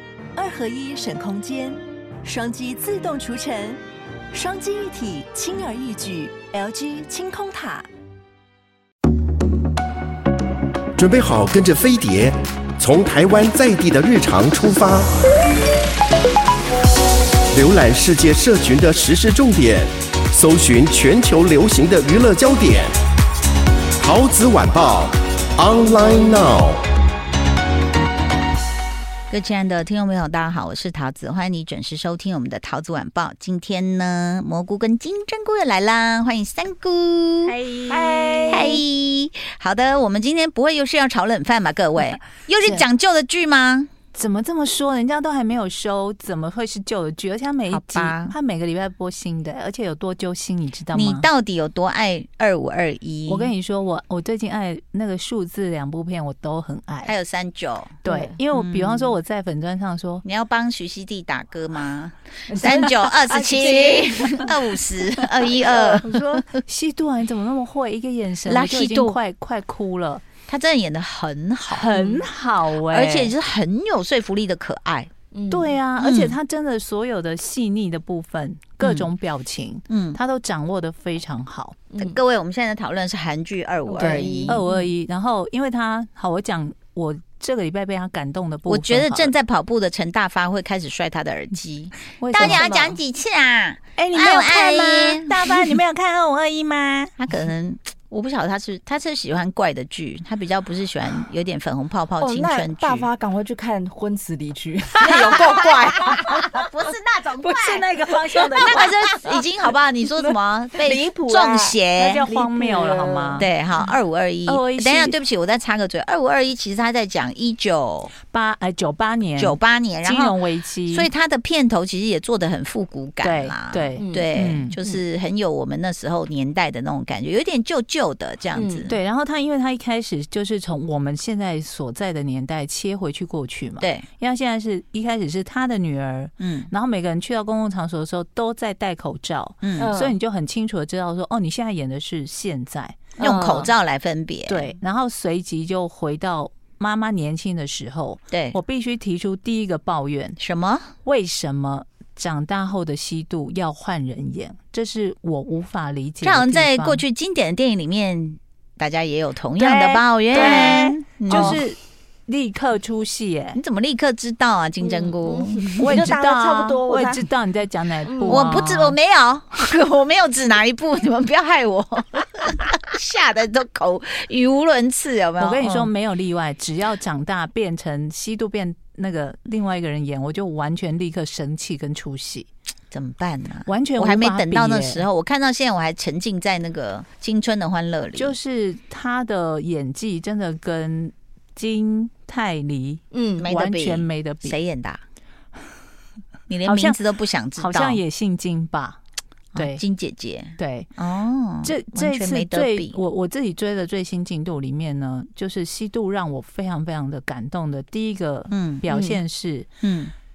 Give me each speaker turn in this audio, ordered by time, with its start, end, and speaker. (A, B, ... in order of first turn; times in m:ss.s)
0:00.3-0:07.9 A
0:11.0-0:15.2 B
0:17.5-0:23.0 B
0:24.0-0:26.9 B
0:29.3-0:37.6 C
0:37.4-0:38.8 D
0:38.5-0:43.9 C
0:44.1-0:51.3 D
0:47.7-0:48.3 C
0:50.9-0:53.5 C
0:53.3-0:57.1 D
0:57.0-0:58.0 C
0:58.0-1:00.2 D
0:58.0-0:58.3 E
0:58.6-0:59.1 C
1:00.2-1:06.4 C
1:02.5-1:04.4 E
1:05.5-1:06.1 E
1:06.0-1:10.2 D
1:08.4-1:09.2 C
1:10.4-1:11.9 C
1:11.7-1:13.3 D
1:11.9-1:12.2 E
1:12.8-1:15.1 C
1:15.3-1:15.8 E
1:15.5-1:21.8 D
1:16.0-1:16.4 C
1:18.8-1:19.1 C
1:19.9-1:20.2 C
1:21.9-1:22.2 E
1:22.0-1:24.6 C
1:23.8-1:24.9 E
1:24.0-1:29.3 D
1:28.7-1:35.7 C
1:32.1-1:33.0 D
1:34.0-1:37.1 D
1:37.2-1:43.1 C
1:42.2-1:46.6 E
1:45.0-1:45.7 C
1:46.4-1:47.8 C
1:47.4-1:49.3 E
1:48.0-1:48.9 D
1:48.6-1:52.3 C
1:50.8-1:53.5 E
1:51.9-1:53.5 D
1:53.4-1:58.1 C
1:54.4-1:55.2 D
1:58.2-2:01.1 D
1:59.4-2:08.9 C
2:03.2-2:04.8 D
2:04.0-2:04.3 E
2:08.5-2:09.0 E
2:08.9-2:23.1 D
2:13.8-2:14.1 C
2:16.4-2:16.7 C
2:19.6-2:19.9 C
2:19.8-2:20.2 E
2:23.2-2:23.7 E
2:23.2-2:24.7 C
2:24.5-2:30.4 D
2:28.3-2:28.6 C
2:30.4-2:30.9 C
2:31.0-2:37.0 D
2:36.2-2:41.6 C
2:39.6-2:43.6 D
2:40.3-2:41.6 E
2:43.5-2:46.0 C
2:44.8-2:47.3 E
2:45.8-2:49.0 D
2:48.1-2:48.6 E
2:48.3-2:55.9 C
2:55.4-3:02.5 D
3:02.9-3:08.4 C
3:03.7-3:05.1 D
3:08.2-3:14.6 D
3:13.1-3:13.5 E
3:13.4-3:15.0 C
3:16.5-3:18.0 C
3:16.6-3:17.0 D
3:17.6-3:19.0 D
3:19.5-3:23.0 C
3:19.6-3:19.8 D
3:20.6-3:20.9 D
3:21.6-3:29.7 D
3:28.5-3:28.8 C
3:28.9-3:29.2 E
3:29.8-3:30.1 C